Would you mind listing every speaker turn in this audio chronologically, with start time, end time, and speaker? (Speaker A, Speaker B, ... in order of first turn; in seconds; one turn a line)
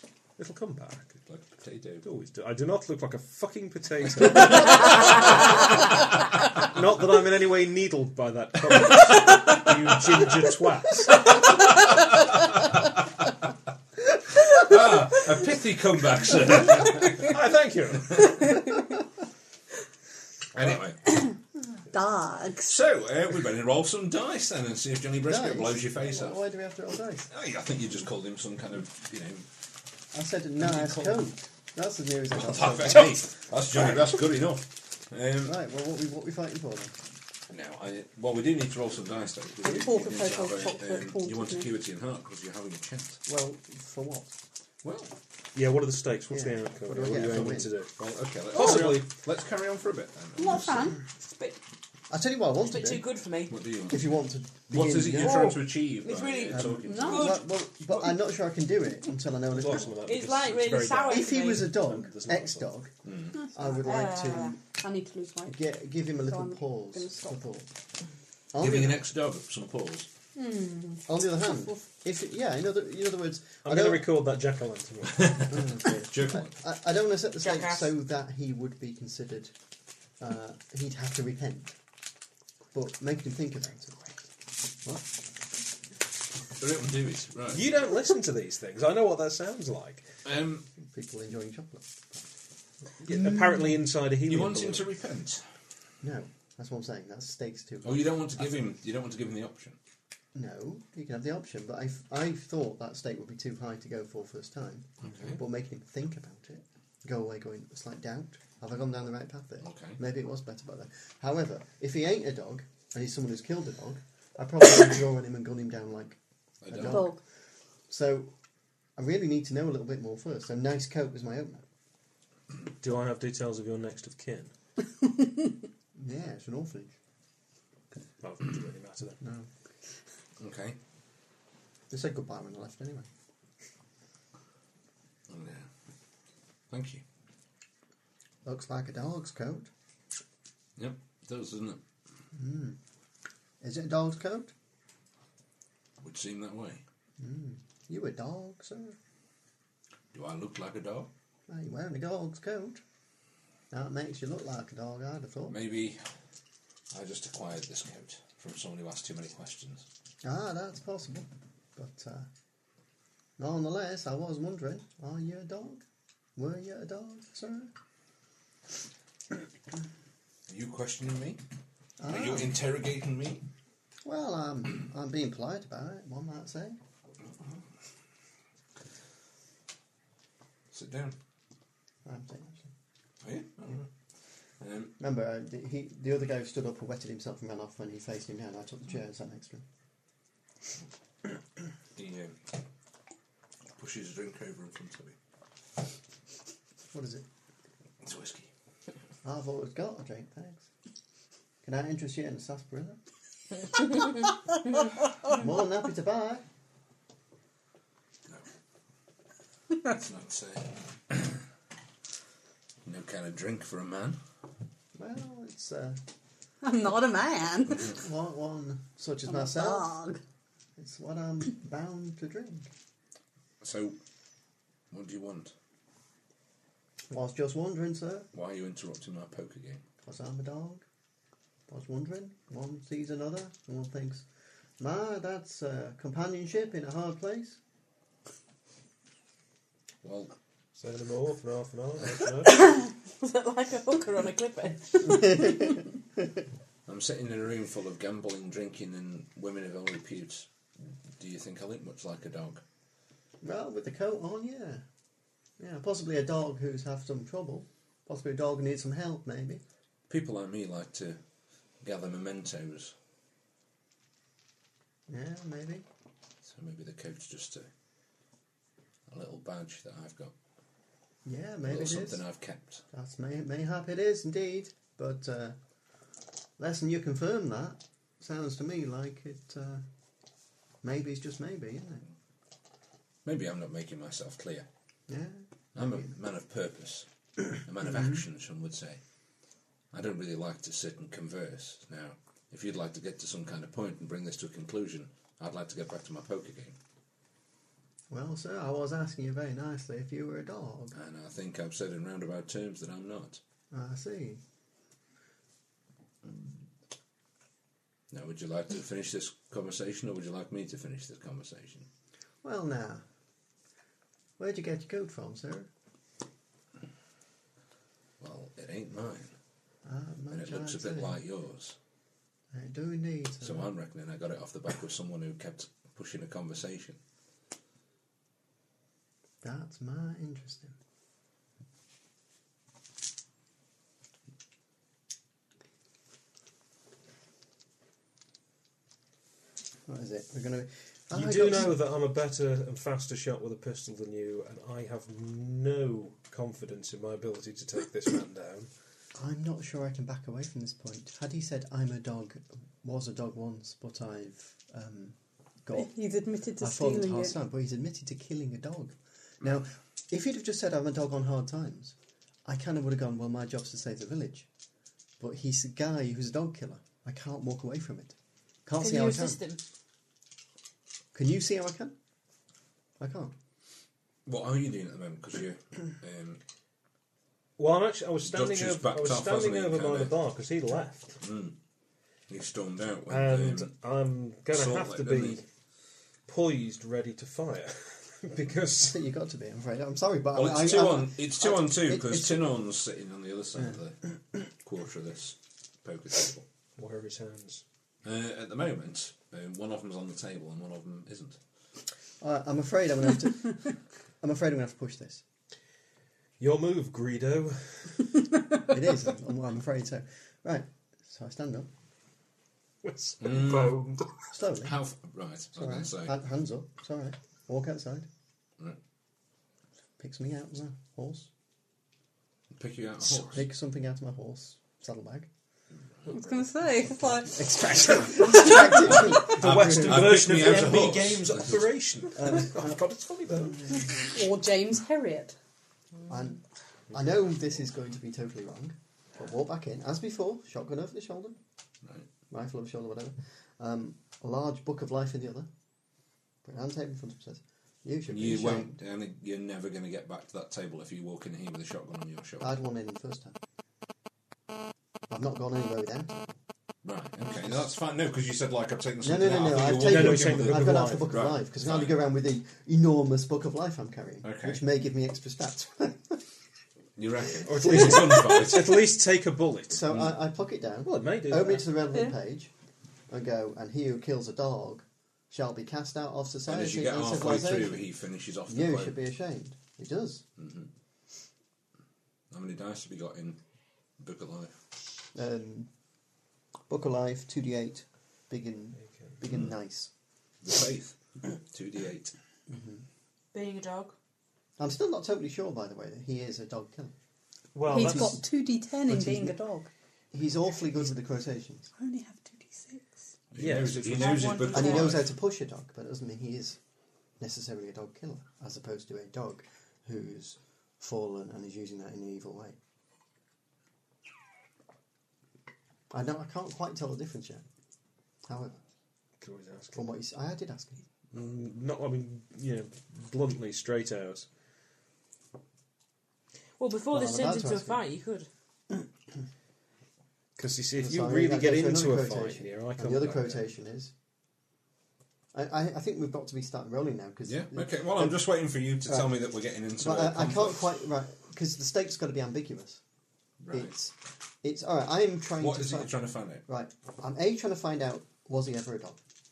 Speaker A: 0.4-1.1
Speaker B: 1.2-2.0
Speaker A: 2.0-5.7
Speaker A: 6.5-11.4
Speaker B: 14.4-17.2
Speaker A: 17.2-18.4
Speaker B: 20.6-21.1
Speaker C: 21.9-22.7
Speaker B: 22.6-26.4
Speaker D: 25.2-27.3
Speaker B: 27.3-29.5
Speaker D: 30.1-33.2
Speaker B: 30.8-31.0
Speaker B: 32.3-35.5
Speaker D: 35.4-36.9
Speaker B: 37.5-43.2
Speaker C: 39.6-41.7
Speaker D: 43.3-44.3
Speaker B: 44.8-45.1
Speaker A: 45.5-49.1
Speaker D: 46.3-47.7
Speaker B: 48.0-50.9
Speaker C: 50.4-51.0
Speaker E: 51.2-51.6
Speaker D: 52.1-53.0
Speaker E: 52.7-53.6
Speaker B: 53.5-54.1
Speaker D: 53.9-55.6
Speaker B: 54.7-57.4
Speaker E: 55.2-57.5
Speaker D: 56.5-59.9
Speaker A: 59.5-62.7
Speaker E: 60.0-61.7
Speaker D: 61.1-64.6
Speaker B: 63.0-63.4
Speaker C: 63.4-65.6
Speaker E: 63.8-64.5
Speaker D: 65.5-67.7
Speaker C: 66.2-67.4
Speaker D: 68.5-69.0
Speaker B: 68.6-70.1
Speaker C: 70.3-71.7
Speaker D: 71.1-74.1
Speaker A: 73.6-75.7
Speaker B: 75.5-76.5
Speaker D: 75.5-79.5
Speaker E: 77.4-77.9
Speaker D: 80.2-81.8
Speaker D: 82.7-84.0
Speaker B: 86.6-87.6
Speaker A: 87.5-90.1
Speaker B: 90.2-90.7
Speaker D: 90.8-92.3
Speaker A: 93.0-94.9
Speaker B: 94.2-95.4
Speaker D: 96.0-98.5
Speaker B: 97.8-99.8
Speaker D: 100.3-117.2
Speaker B: 105.0-105.4
Speaker B: 109.6-110.0
Speaker B: 116.6-117.1
Speaker C: 116.8-117.2
Speaker D: 117.9-118.3
Speaker D: 119.0-121.6
Speaker A: 122.8-124.5
Speaker D: 126.0-127.0
Speaker A: 128.2-129.2
Speaker D: 129.2-129.5
Speaker B: 130.4-130.8
Speaker D: 131.9-133.1
Speaker B: 135.3-135.7
Speaker B: 136.7-137.0
Speaker D: 138.4-139.7
Speaker B: 140.8-141.8
Speaker D: 142.3-142.8
Speaker D: 143.6-144.5
Speaker B: 146.0-146.8
Speaker D: 147.2-149.0
Speaker B: 150.1-151.1
Speaker D: 151.5-152.8
Speaker D: 153.7-155.6
Speaker B: 155.5-156.0
Speaker B: 156.9-159.8
Speaker D: 160.2-162.3
Speaker D: 163.4-165.8
Speaker D: 166.4-167.7
Speaker B: 170.5-171.4
Speaker D: 172.0-172.6
Speaker B: 172.0-173.4
Speaker D: 174.1-176.8
Speaker B: 180.7-181.2
Speaker D: 182.1-182.7
Speaker B: 183.2-183.9
Speaker B: 184.6-184.9
Speaker D: 185.0-189.6
Speaker B: 192.0-192.4
Speaker B: 193.8-195.2
Speaker D: 196.9-197.3
Speaker B: 198.0-198.5
Speaker D: 199.2-200.7
Speaker D: 201.6-203.0
Speaker D: 205.3-206.4
Speaker B: 209.8-211.4
Speaker B: 212.8-214.2
Speaker D: 214.9-216.0
Speaker C: 216.6-218.0
Speaker D: 217.9-219.9
Speaker C: 219.3-220.2
Speaker D: 220.8-222.7
Speaker B: 223.6-224.0
Speaker B: 224.9-225.5
Speaker D: 227.1-228.3
Speaker B: 228.3-229.8
Speaker D: 230.0-230.8
Speaker D: 231.7-234.3
Speaker D: 234.8-237.6
Speaker B: 240.0-240.3
Speaker A: 240.8-242.6
Speaker E: 242.5-245.6
Speaker D: 245.1-245.8
Speaker B: 246.9-250.5
Speaker B: 251.2-252.6
Speaker D: 253.4-254.8
Speaker D: 255.6-259.6
Speaker B: 260.1-261.2
Speaker B: 261.8-262.9
Speaker D: 265.1-265.9
Speaker B: 266.4-267.7
Speaker B: 269.1-270.3
Speaker D: 271.2-272.2
Speaker B: 271.7-272.8
Speaker D: 272.9-275.6
Speaker D: 276.6-279.8
Speaker D: 280.8-282.1
Speaker B: 283.2-284.7
Speaker D: 285.1-286.1
Speaker B: 285.7-289.0
Speaker B: 289.9-296.8
Speaker D: 298.1-301.0
Speaker B: 300.9-303.4
Speaker D: 303.7-304.4
Speaker B: 308.1-311.9
Speaker D: 312.4-313.1
Speaker D: 314.4-315.7
Speaker B: 318.2-319.3
Speaker D: 319.9-321.2
Speaker B: 320.3-321.8
Speaker D: 322.5-323.7
Speaker B: 323.4-327.0
Speaker D: 329.4-330.8
Speaker D: 339.9-341.8
Speaker A: 341.1-348.7
Speaker D: 349.1-355.9
Speaker C: 355.7-357.4
Speaker D: 356.6-364.5
Speaker D: 365.2-369.4
Speaker E: 368.8-369.6
Speaker D: 371.1-371.9
Speaker D: 373.0-373.3
Speaker B: 374.3-376.4
Speaker A: 377.6-381.2
Speaker B: 378.2-380.1
Speaker B: 381.2-381.6
Speaker B: 382.3-383.7
Speaker A: 383.1-385.4
Speaker B: 384.5-385.4
Speaker A: 386.3-389.0
Speaker D: 388.8-392.5
Speaker B: 390.4-396.4
Speaker A: 396.8-397.6
Speaker B: 398.0-401.4
Speaker D: 402.2-403.7
Speaker D: 404.2-405.2
Speaker A: 406.4-408.0
Speaker D: 408.7-411.7
Speaker A: 412.8-414.3
Speaker B: 413.2-413.8
Speaker D: 414.3-414.8
Speaker B: 414.6-416.2
Speaker D: 415.5-418.1
Speaker D: 420.0-421.3
Speaker B: 422.5-423.4
Speaker D: 423.2-425.3
Speaker C: 426.1-429.0
Speaker D: 427.4-430.8
Speaker A: 428.3-434.1
Speaker B: 429.2-431.6
Speaker D: 432.2-432.8
Speaker D: 433.4-433.9
Speaker C: 434.1-435.4
Speaker D: 436.1-436.4
Speaker D: 436.9-441.4
Speaker D: 442.3-445.5
Speaker D: 446.4-448.8
Speaker B: 448.1-452.5
Speaker D: 452.4-453.4
Speaker D: 455.1-456.3
Speaker B: 456.8-462.0
Speaker D: 459.0-466.2
Speaker A: 459.8-461.1
Speaker B: 464.2-464.6
Speaker B: 467.0-468.8
Speaker A: 467.4-469.9
Speaker D: 467.7-468.1
Speaker D: 469.7-472.5
Speaker B: 469.9-470.2
Speaker A: 470.8-471.7
Speaker D: 473.1-477.9
Speaker B: 476.5-479.0
Speaker D: 478.5-480.2
Speaker B: 480.4-480.7
Speaker B: 482.3-483.4
Speaker B: 484.0-484.5
Speaker D: 485.1-485.7
Speaker D: 486.7-489.9
Speaker A: 488.8-489.2
Speaker B: 490.4-492.1
Speaker D: 492.5-492.9
Speaker E: 493.3-493.9
Speaker D: 494.6-496.9
Speaker A: 497.6-498.2
Speaker C: 497.7-499.7
Speaker D: 497.7-498.2
Speaker D: 498.9-499.4
Speaker D: 500.1-501.7
Speaker C: 501.8-503.0
Speaker B: 503.3-505.1
Speaker A: 503.4-504.3
Speaker E: 503.9-505.1
Speaker D: 504.5-506.6
Speaker D: 507.2-512.6
Speaker D: 515.9-517.4
Speaker D: 518.2-518.6
Speaker A: 519.2-519.9
Speaker D: 519.7-520.8
Speaker A: 521.1-524.3
Speaker E: 526.6-528.3
Speaker D: 526.9-527.8
Speaker A: 530.4-533.5
Speaker D: 530.8-533.9
Speaker D: 535.3-538.3
Speaker B: 537.3-540.6
Speaker D: 538.9-539.2
Speaker D: 539.8-542.8
Speaker B: 543.4-543.7
Speaker D: 543.5-549.0
Speaker B: 545.4-546.4